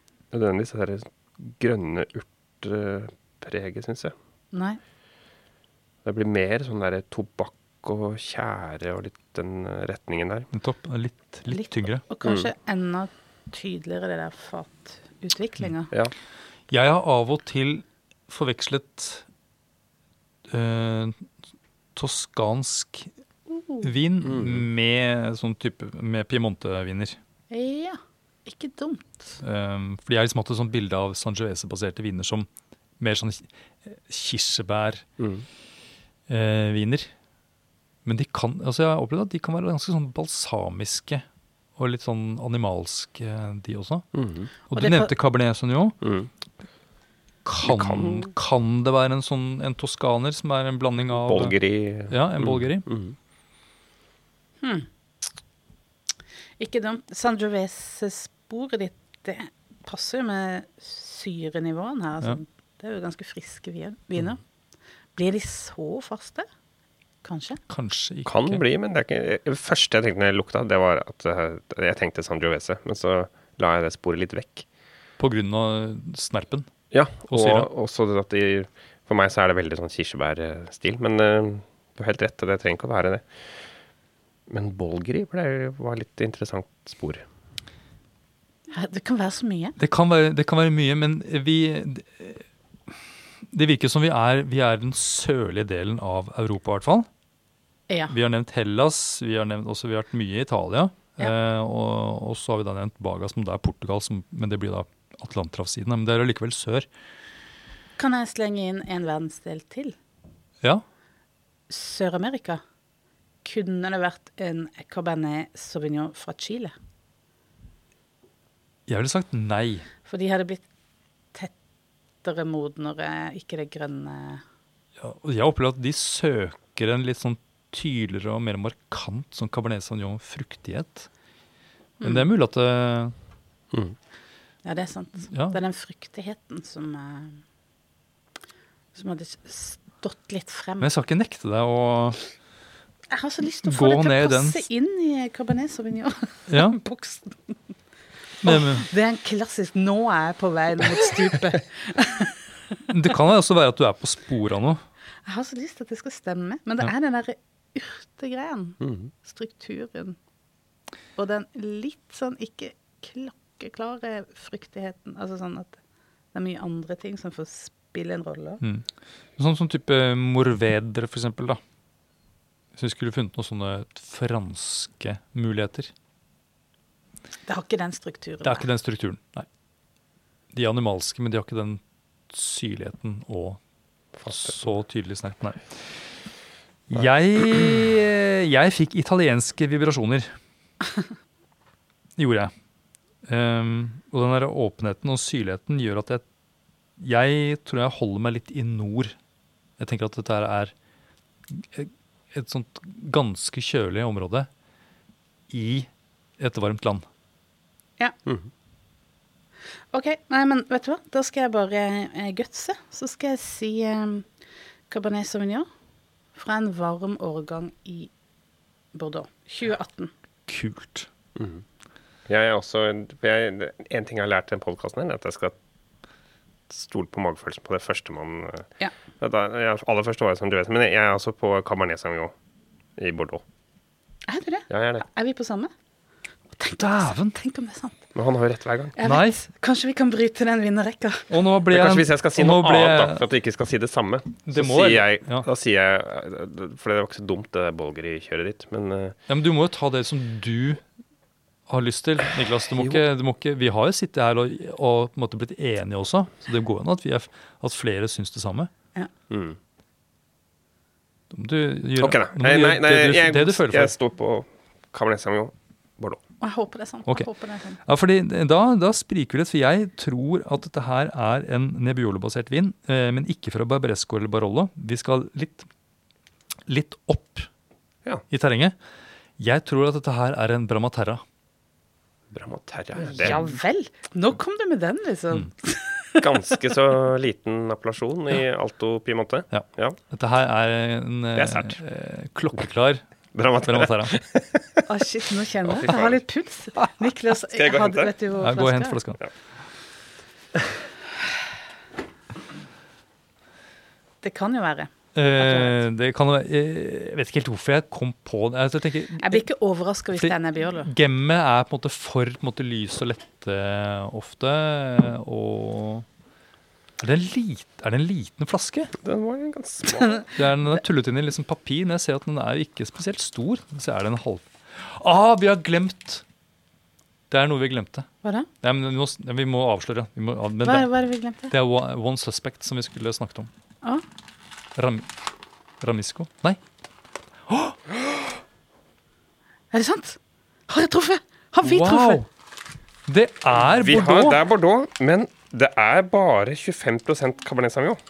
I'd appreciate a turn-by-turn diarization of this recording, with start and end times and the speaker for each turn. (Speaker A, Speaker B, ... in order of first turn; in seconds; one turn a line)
Speaker A: 0.3-4.1
Speaker B: 4.5-4.8
Speaker A: 6.0-10.5
Speaker C: 10.5-12.0
Speaker B: 11.5-15.9
Speaker A: 12.2-12.5
Speaker C: 16.7-19.2
Speaker C: 20.5-21.2
Speaker C: 21.9-23.1
Speaker B: 23.5-23.9
Speaker C: 23.8-27.2
Speaker A: 24.2-24.6
Speaker B: 27.5-29.4
Speaker C: 29.4-32.5
Speaker C: 33.0-35.0
Speaker A: 35.2-35.4
Speaker C: 36.3-37.1
Speaker C: 38.0-41.2
Speaker C: 41.8-44.1
Speaker A: 44.1-44.5
Speaker C: 44.7-46.0
Speaker B: 44.7-45.1
Speaker A: 46.0-46.3
Speaker C: 47.4-51.6
Speaker A: 47.6-48.3
Speaker A: 51.2-53.1
Speaker C: 52.1-52.9
Speaker B: 54.6-54.9
Speaker B: 56.6-64.4
Speaker B: 65.1-66.5
Speaker B: 67.2-67.6
Speaker C: 67.7-68.6
Speaker A: 68.2-74.6
Speaker C: 75.2-76.7
Speaker A: 76.9-83.3
Speaker C: 77.3-77.7
Speaker A: 84.5-87.2
Speaker B: 88.7-89.8
Speaker C: 89.8-92.9
Speaker C: 93.5-97.1
Speaker B: 97.9-98.1
Speaker C: 98.1-106.9
Speaker B: 108.0-110.0
Speaker B: 111.7-112.6
Speaker B: 113.4-116.7
Speaker C: 118.9-119.9
Speaker B: 120.0-120.7
Speaker B: 122.2-124.4
Speaker C: 125.0-131.1
Speaker B: 132.0-132.3
Speaker C: 132.0-133.1
Speaker B: 134.6-137.4
Speaker C: 135.3-135.6
Speaker B: 138.9-140.9
Speaker C: 140.8-142.2
Speaker B: 143.1-147.6
Speaker C: 143.6-144.6
Speaker C: 146.5-146.8
Speaker C: 148.4-148.9
Speaker B: 148.4-152.4
Speaker C: 152.9-154.8
Speaker B: 155.2-160.2
Speaker A: 158.8-159.1
Speaker B: 161.2-165.8
Speaker B: 166.3-168.6
Speaker C: 168.6-171.6
Speaker C: 172.7-175.9
Speaker B: 177.4-178.6
Speaker C: 178.4-179.5
Speaker C: 180.5-183.6
Speaker A: 184.2-184.6
Speaker C: 184.2-185.9
Speaker C: 186.9-190.3
Speaker C: 192.2-192.5
Speaker C: 193.2-196.2
Speaker C: 197.0-199.2
Speaker C: 199.8-200.7
Speaker C: 201.5-204.5
Speaker C: 205.5-207.1
Speaker B: 209.9-214.3
Speaker B: 214.9-215.7
Speaker B: 216.3-218.1
Speaker B: 218.9-220.1
Speaker C: 220.5-221.1
Speaker A: 221.3-221.6
Speaker A: 222.3-225.6
Speaker A: 226.7-232.3
Speaker A: 233.0-233.4
Speaker B: 234.3-235.7
Speaker A: 234.7-235.0
Speaker B: 236.6-238.0
Speaker C: 236.8-237.3
Speaker A: 238.1-238.9
Speaker B: 239.0-241.3
Speaker C: 239.0-239.4
Speaker C: 241.3-243.2
Speaker A: 241.7-249.2
Speaker C: 244.5-245.5
Speaker C: 249.3-250.8
Speaker C: 251.7-258.7
Speaker A: 259.3-259.6
Speaker C: 261.3-263.9
Speaker A: 262.0-266.2
Speaker B: 266.4-267.8
Speaker C: 267.8-275.7
Speaker C: 276.6-277.5
Speaker C: 278.3-278.8
Speaker C: 279.4-281.2
Speaker A: 282.3-283.4
Speaker B: 283.0-286.2
Speaker A: 286.2-290.0
Speaker C: 289.5-293.0
Speaker A: 291.4-291.8
Speaker A: 293.3-294.8
Speaker C: 293.6-294.1
Speaker B: 294.9-299.0
Speaker A: 295.7-296.2
Speaker A: 297.5-298.1
Speaker C: 298.3-299.2
Speaker B: 304.2-305.8
Speaker C: 305.1-309.4
Speaker B: 309.2-310.9
Speaker C: 310.1-316.1
Speaker C: 317.0-318.9
Speaker A: 319.0-320.3
Speaker B: 320.0-320.3
Speaker C: 320.3-326.2
Speaker C: 327.3-328.1
Speaker B: 328.2-328.5
Speaker C: 328.6-330.9
Speaker B: 330.6-331.5
Speaker C: 331.5-333.5
Speaker C: 334.7-335.1
Speaker C: 335.8-336.6
Speaker C: 337.4-337.8
Speaker B: 339.7-342.2
Speaker C: 341.6-342.3
Speaker C: 343.1-344.4
Speaker A: 343.6-348.0